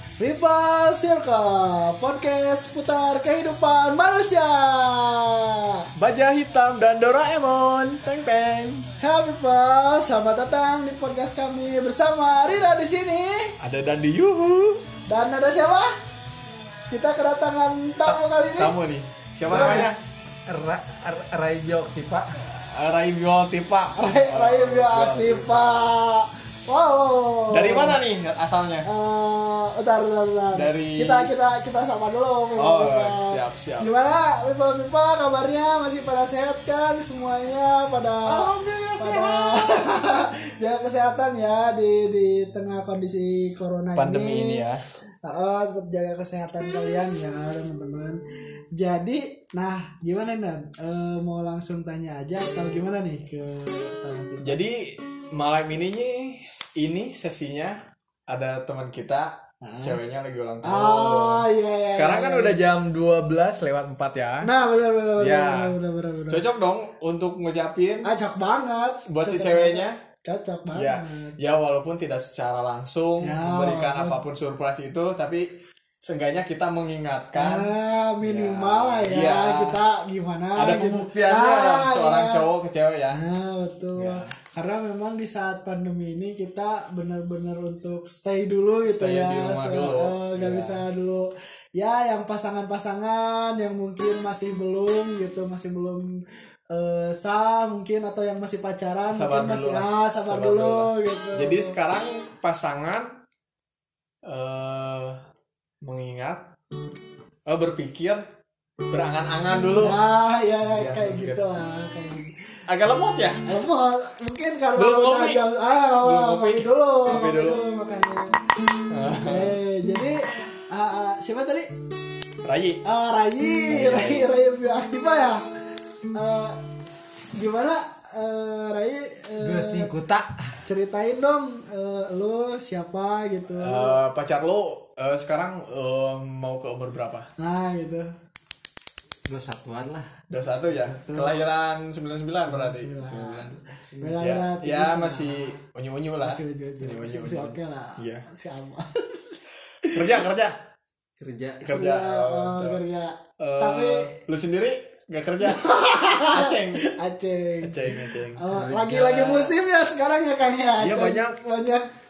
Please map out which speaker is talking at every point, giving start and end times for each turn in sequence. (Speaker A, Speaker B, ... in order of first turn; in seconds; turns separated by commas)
Speaker A: 0.2-5.8, Speaker B: 6.0-8.9, Speaker A: 9.0-13.6, Speaker B: 13.6-14.8, Speaker A: 15.1-15.9, Speaker A: 16.9-18.8, Speaker B: 18.1-20.0, Speaker C: 19.5-19.9, Speaker A: 19.5-19.9, Speaker C: 20.5-22.4, Speaker B: 22.4-25.9, Speaker A: 23.9-28.0, Speaker B: 27.5-28.9, Speaker A: 28.9-44.6, Speaker B: 30.5-31.3, Speaker B: 32.6-33.9, Speaker B: 38.2-40.0, Speaker B: 44.0-44.8, Speaker A: 45.2-48.2, Speaker A: 48.7-54.6, Speaker B: 54.4-64.5, Speaker A: 59.6-60.0, Speaker A: 60.6-62.5, Speaker A: 64.4-66.4, Speaker B: 65.2-65.8, Speaker B: 66.3-68.1, Speaker A: 68.0-71.4, Speaker B: 69.1-70.0, Speaker B: 70.7-75.5, Speaker A: 73.2-74.2, Speaker B: 76.0-79.8, Speaker A: 77.3-82.5, Speaker B: 80.5-83.2, Speaker A: 83.1-101.7, Speaker B: 84.0-84.3, Speaker B: 88.8-90.8, Speaker B: 99.1-103.2, Speaker B: 104.2-105.2, Speaker B: 105.8-106.5, Speaker B: 107.5-108.2, Speaker B: 108.9-110.0, Speaker A: 109.5-112.3, Speaker B: 110.6-111.5, Speaker B: 112.7-113.4, Speaker A: 113.4-118.4, Speaker B: 114.8-115.5, Speaker B: 116.0-117.6, Speaker B: 118.9-119.6, Speaker A: 119.1-121.7, Speaker B: 122.4-122.8, Speaker A: 122.8-125.4, Speaker B: 123.6-124.3, Speaker A: 126.1-126.6, Speaker A: 127.3-129.9, Speaker C: 129.4-130.6, Speaker A: 130.6-134.0, Speaker B: 133.6-137.3, Speaker A: 137.4-138.1, Speaker C: 139.2-140.2, Speaker B: 140.3-143.5, Speaker A: 140.7-141.4, Speaker A: 142.4-145.6, Speaker C: 143.6-144.2, Speaker B: 144.2-148.2, Speaker A: 146.2-150.2, Speaker B: 149.9-150.6, Speaker C: 151.2-151.6, Speaker B: 151.6-152.8, Speaker A: 151.7-154.2, Speaker B: 153.4-156.9, Speaker A: 155.4-161.9, Speaker B: 157.6-159.5, Speaker B: 160.8-161.4